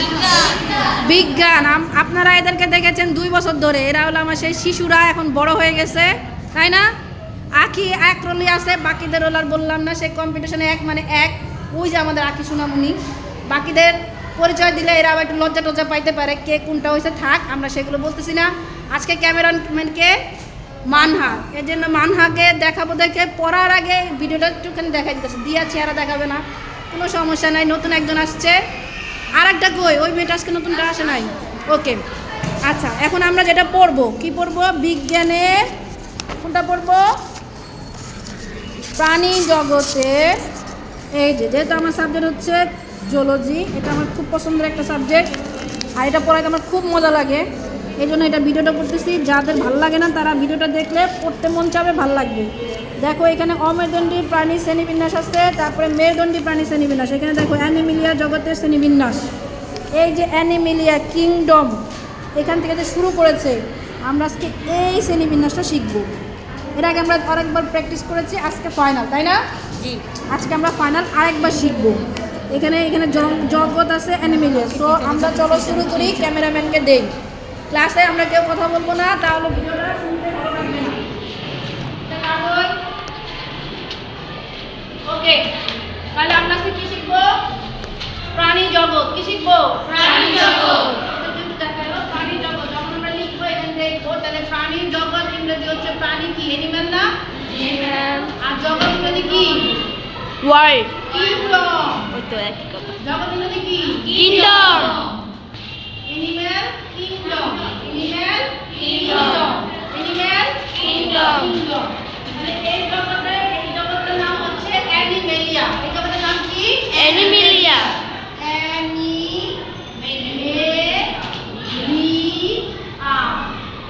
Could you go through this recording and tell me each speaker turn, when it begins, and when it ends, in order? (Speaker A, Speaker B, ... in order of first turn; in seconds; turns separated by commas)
Speaker A: 0.9-6.9, Speaker A: 7.5-20.2, Speaker A: 20.9-28.6, Speaker A: 29.3-32.0, Speaker A: 32.6-35.7, Speaker A: 36.4-37.1, Speaker A: 39.0-40.4, Speaker A: 41.1-45.3, Speaker A: 45.9-59.3, Speaker A: 59.9-61.8, Speaker A: 62.3-66.1, Speaker A: 66.7-69.4, Speaker A: 70.3-77.1, Speaker A: 77.7-81.0, Speaker A: 82.1-82.7, Speaker A: 85.0-85.5, Speaker A: 86.1-87.4, Speaker A: 88.3-97.1, Speaker B: 97.5-98.3, Speaker A: 98.4-99.8, Speaker B: 100.4-101.1, Speaker A: 101.0-102.1, Speaker B: 102.1-103.0, Speaker A: 103.0-104.9, Speaker B: 104.1-105.2, Speaker A: 106.0-117.8, Speaker B: 109.1-109.4, Speaker B: 110.8-111.6, Speaker B: 116.9-118.0, Speaker A: 118.3-123.5